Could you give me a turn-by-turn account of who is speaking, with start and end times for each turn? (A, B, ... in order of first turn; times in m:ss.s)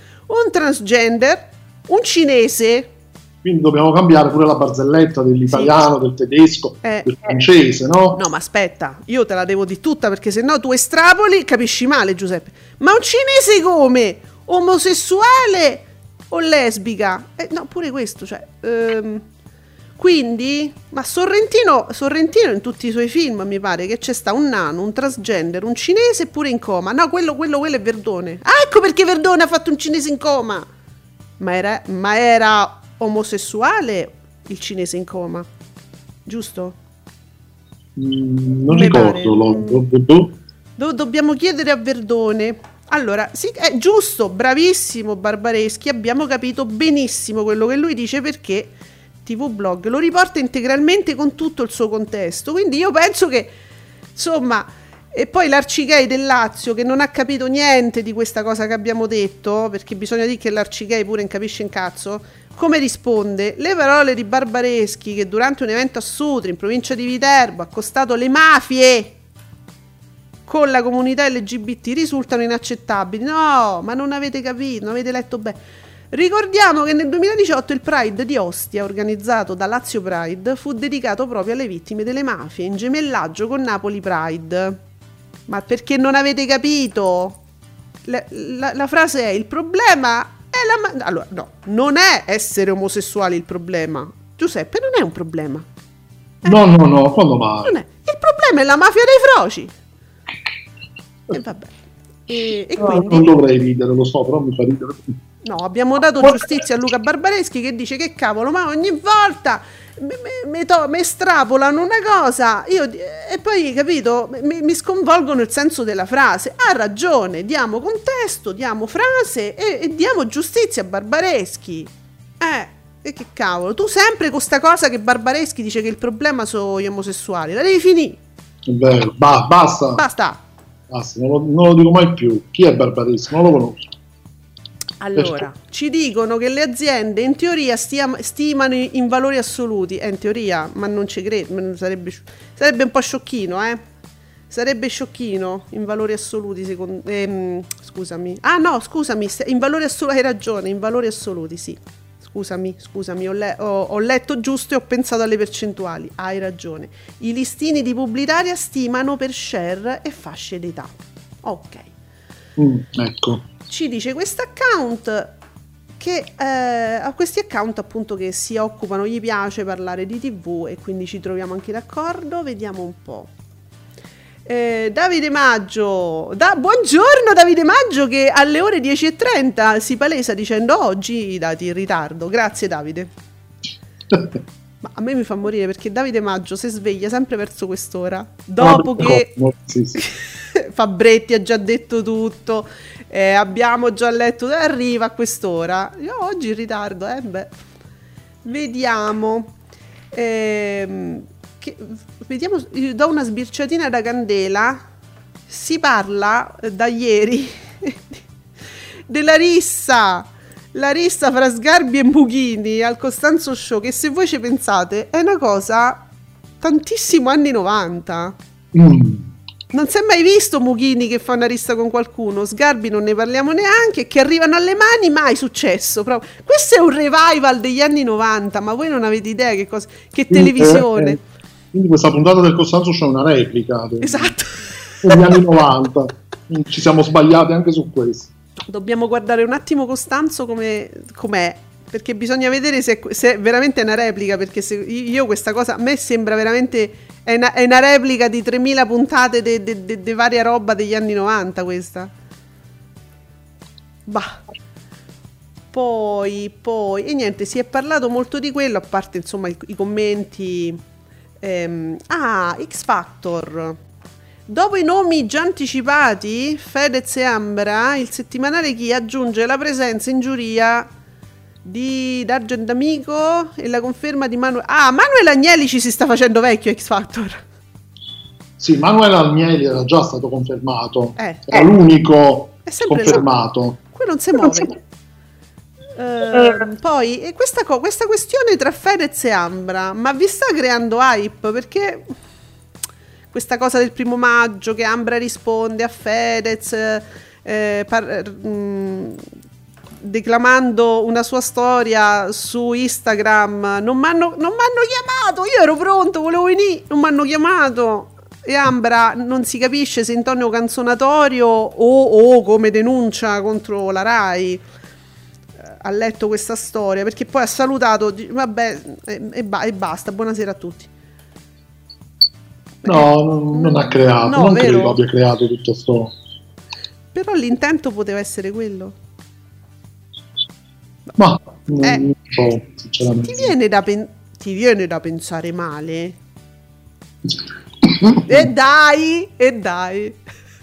0:00.3-0:02.9 A
0:03.4-0:08.2 B
0:05.5-0:05.8 A
0:06.8-0:07.4 A
0:08.1-0:19.2 A
0:20.0-0:30.7 A
0:31.4-0:35.5 A
0:36.3-0:36.8 A
0:38.0-0:40.4 B
0:38.7-0:39.8 A
0:40.8-0:48.7 A
0:49.2-0:53.5 A
0:54.2-1:09.1 A
1:10.5-1:15.6 A
1:16.1-1:24.8 A
1:25.5-1:27.4 A
1:28.1-1:35.7 A
1:36.4-1:37.7 B
1:37.6-1:39.7 A
1:41.3-1:41.7 A
1:42.3-1:43.3 A
1:42.8-1:45.2 B
1:45.4-2:01.9 A
2:02.4-2:08.2 A
2:08.7-2:10.0 B
2:10.0-2:10.4 A
2:10.9-2:13.9 B
2:15.0-2:23.8 A
2:15.2-2:15.4 B
2:24.5-2:41.9 A
2:42.6-2:43.5 B
2:43.7-2:45.3 A
2:46.0-2:53.3 A
2:54.5-3:03.1 A
3:04.1-3:04.4 B
3:04.8-3:09.3 A
3:08.6-3:10.0 B
3:10.0-3:17.6 A
3:18.4-3:19.5 A
3:20.1-3:24.8 A
3:25.5-3:28.2 A
3:29.1-3:36.0 A
3:36.6-3:38.4 A
3:38.7-3:39.3 B
3:39.7-3:51.2 A
3:50.3-3:51.2 B
3:51.7-3:54.4 B
3:54.0-3:55.4 A
3:55.0-3:58.3 B
3:58.7-4:12.1 A
4:14.1-4:14.4 A
4:15.7-4:20.8 A
4:21.4-4:23.8 A
4:24.5-4:30.9 A
4:31.6-4:37.4 A
4:38.6-4:43.8 B
4:41.2-4:41.7 A
4:42.7-4:43.3 A
4:43.8-4:44.8 A
4:44.4-4:44.7 B
4:46.0-4:52.0 A
4:46.3-4:46.6 B
4:53.3-4:59.2 A
5:00.0-5:14.6 A
5:15.6-5:20.9 A
5:22.8-5:25.0 A
5:22.8-5:26.1 B
5:27.1-5:29.0 A
5:31.2-5:33.5 B
5:33.2-5:36.2 A
5:37.8-5:38.5 B
5:38.3-5:40.2 A